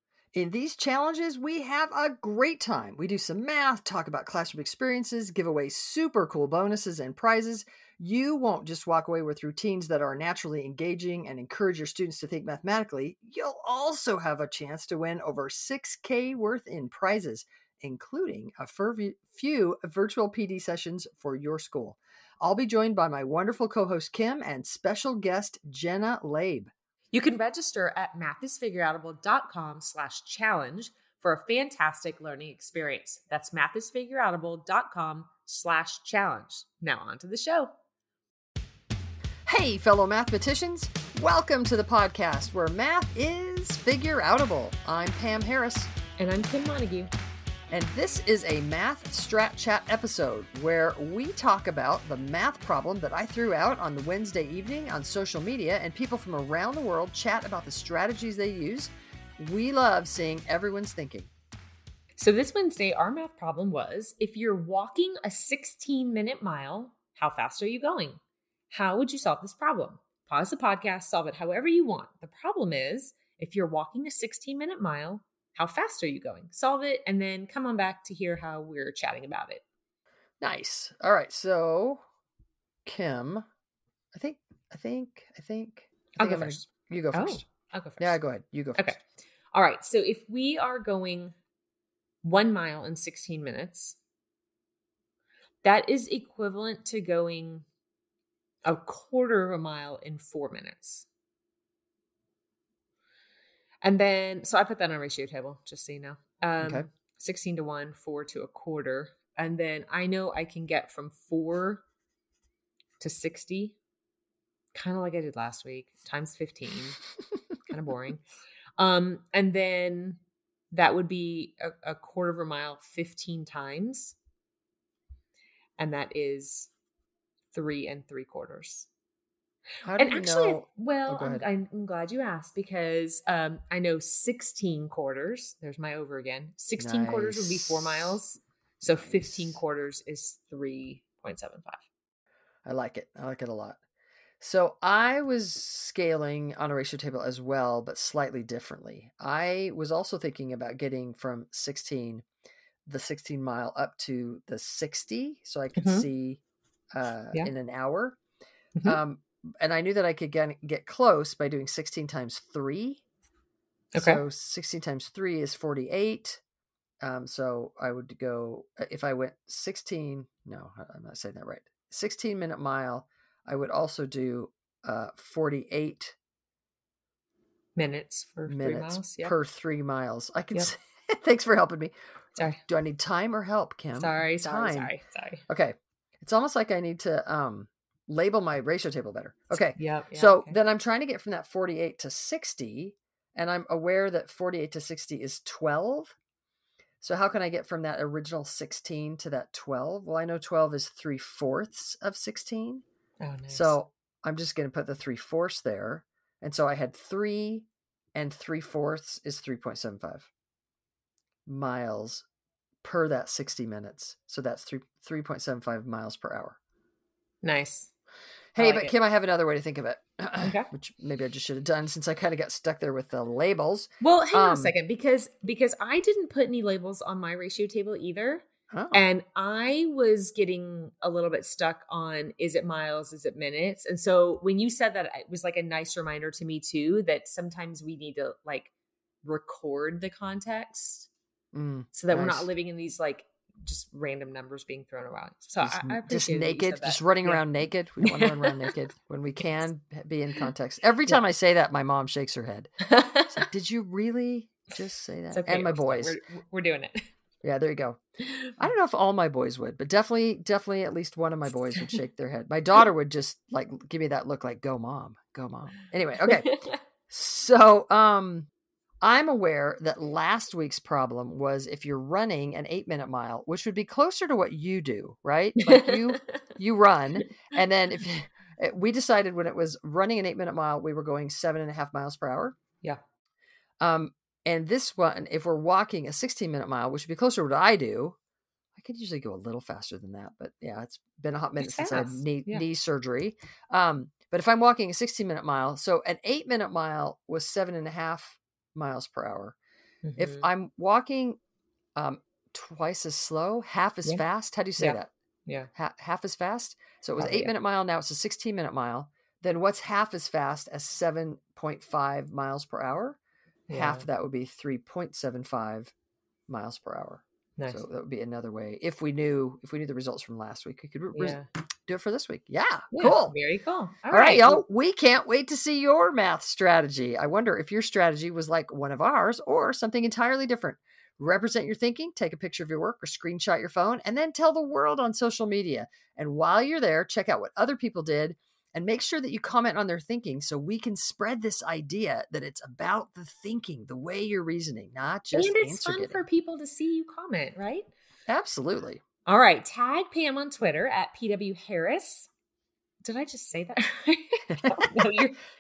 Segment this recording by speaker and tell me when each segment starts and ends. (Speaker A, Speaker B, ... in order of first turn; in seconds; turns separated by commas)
Speaker A: 0.3-26.7, Speaker B: 27.1-37.7, Speaker A: 39.5-45.9, Speaker B: 46.2-47.1, Speaker A: 47.7-61.3, Speaker B: 62.2-68.2, Speaker B: 68.7-79.6, Speaker A: 80.4-82.0, Speaker A: 82.9-83.5, Speaker A: 84.1-87.5, Speaker B: 86.2-88.2, Speaker A: 88.0-89.0, Speaker B: 88.8-91.4, Speaker B: 92.2-94.0, Speaker B: 95.6-97.7, Speaker B: 98.7-101.1, Speaker B: 103.8-111.8, Speaker A: 106.6-106.9, Speaker B: 113.0-113.8, Speaker B: 114.7-117.0, Speaker B: 117.7-118.2, Speaker B: 118.8-120.2, Speaker B: 120.7-124.2, Speaker B: 125.8-126.7, Speaker B: 127.5-128.9, Speaker A: 129.8-131.4, Speaker B: 130.0-141.8, Speaker A: 136.8-138.2, Speaker A: 138.8-139.6, Speaker A: 142.7-143.8, Speaker A: 144.4-152.2, Speaker A: 152.9-156.4, Speaker B: 155.8-156.1, Speaker A: 156.9-158.2, Speaker A: 158.8-163.0, Speaker B: 163.9-164.2, Speaker A: 163.9-166.4, Speaker A: 167.0-176.2, Speaker B: 177.8-179.3, Speaker A: 178.5-181.9, Speaker A: 182.7-184.9, Speaker B: 183.9-185.4, Speaker A: 185.5-196.2, Speaker B: 189.8-190.6, Speaker A: 197.0-202.8, Speaker B: 203.2-203.8, Speaker A: 203.5-210.3, Speaker A: 211.5-212.3, Speaker A: 212.8-216.6, Speaker B: 217.4-217.9, Speaker A: 218.6-224.7, Speaker B: 218.6-218.9, Speaker B: 220.4-220.7, Speaker B: 224.0-238.7, Speaker A: 228.7-229.0, Speaker B: 239.2-241.1, Speaker A: 241.5-242.5, Speaker B: 241.9-247.5, Speaker A: 245.6-256.2, Speaker B: 248.0-248.7, Speaker B: 252.9-253.4, Speaker B: 255.3-257.1, Speaker A: 257.4-258.0, Speaker B: 258.2-258.5, Speaker A: 258.6-266.6, Speaker B: 266.3-266.8, Speaker A: 267.1-268.5, Speaker A: 269.0-282.6, Speaker B: 275.6-276.2, Speaker A: 283.8-288.2, Speaker A: 288.8-299.6, Speaker B: 291.6-292.7, Speaker B: 300.0-300.5, Speaker A: 300.2-301.4, Speaker A: 302.0-305.1, Speaker B: 304.8-305.7, Speaker A: 305.8-313.2, Speaker B: 307.2-307.5, Speaker B: 313.7-314.1, Speaker A: 313.7-315.9, Speaker A: 316.5-323.4, Speaker B: 321.1-321.5, Speaker B: 322.9-324.6, Speaker A: 324.1-346.2, Speaker B: 345.3-347.9, Speaker A: 348.3-349.0, Speaker B: 349.3-352.3, Speaker B: 353.0-355.4